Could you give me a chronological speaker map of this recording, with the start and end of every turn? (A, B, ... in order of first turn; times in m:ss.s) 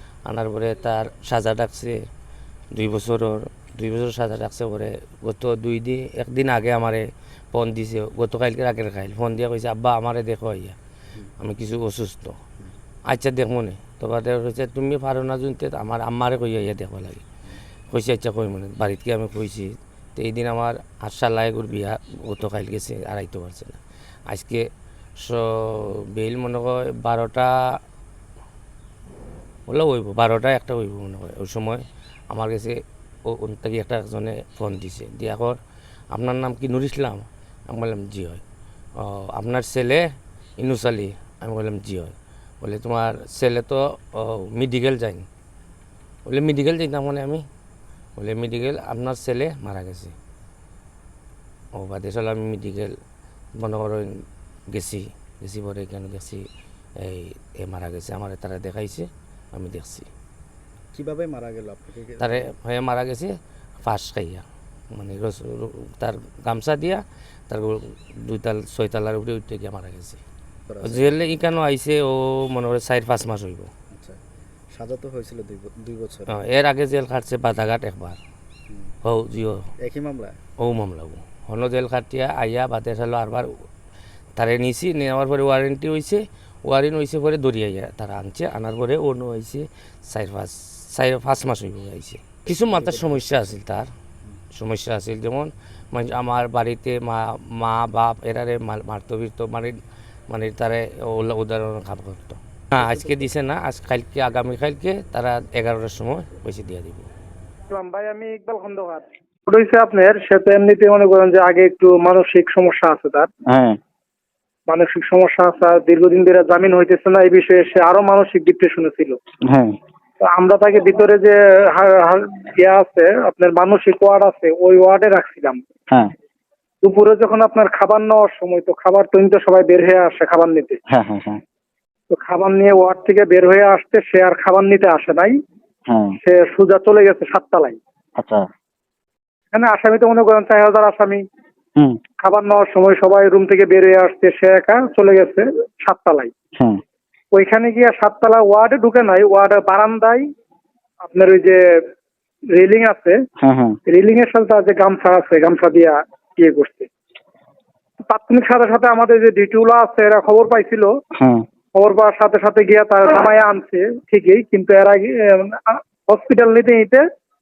0:00.2-0:02.0 A
0:02.7-0:10.8 A
0:11.4-0:12.4 A
0:13.1-0:17.2 A
0:17.9-0:24.7 A
0:25.2-0:27.5 A
0:29.7-0:35.6 A
0:36.1-0:38.4 A
0:39.0-0:45.3 A
0:46.2-0:47.4 A
0:48.2-0:50.1 A
0:51.7-0:52.9 A
0:53.6-0:56.4 A
0:57.0-1:00.1 A
1:00.9-1:02.5 B
1:02.2-1:10.2 A
1:10.7-1:11.1 B
1:10.8-1:13.7 A
1:13.9-1:14.2 B
1:14.7-1:16.4 B
1:16.3-1:18.2 A
1:19.0-1:19.7 A
1:19.8-1:20.4 B
1:20.6-1:23.5 A
1:24.4-1:33.9 A
1:32.7-1:33.3 B
1:34.5-1:39.8 A
1:40.3-1:47.1 A
1:42.8-1:43.2 B
1:47.7-1:53.3 C
1:53.5-1:53.8 D
1:54.7-1:59.2 C
1:59.5-1:59.8 D
2:00.2-2:05.6 C
2:06.8-2:10.8 C
2:10.9-2:11.4 D
2:12.1-2:15.3 C
2:15.9-2:16.2 D
2:16.2-2:17.8 C
2:18.2-2:18.5 D
2:19.5-2:21.2 C
2:22.2-2:26.3 C
2:26.6-2:26.8 D
2:27.3-2:30.3 C
2:31.0-2:31.6 C
2:32.5-2:33.2 C
2:33.4-2:33.8 D
2:33.9-2:36.9 C
2:38.1-2:40.9 C
2:41.1-2:41.4 D
2:41.8-2:47.0 C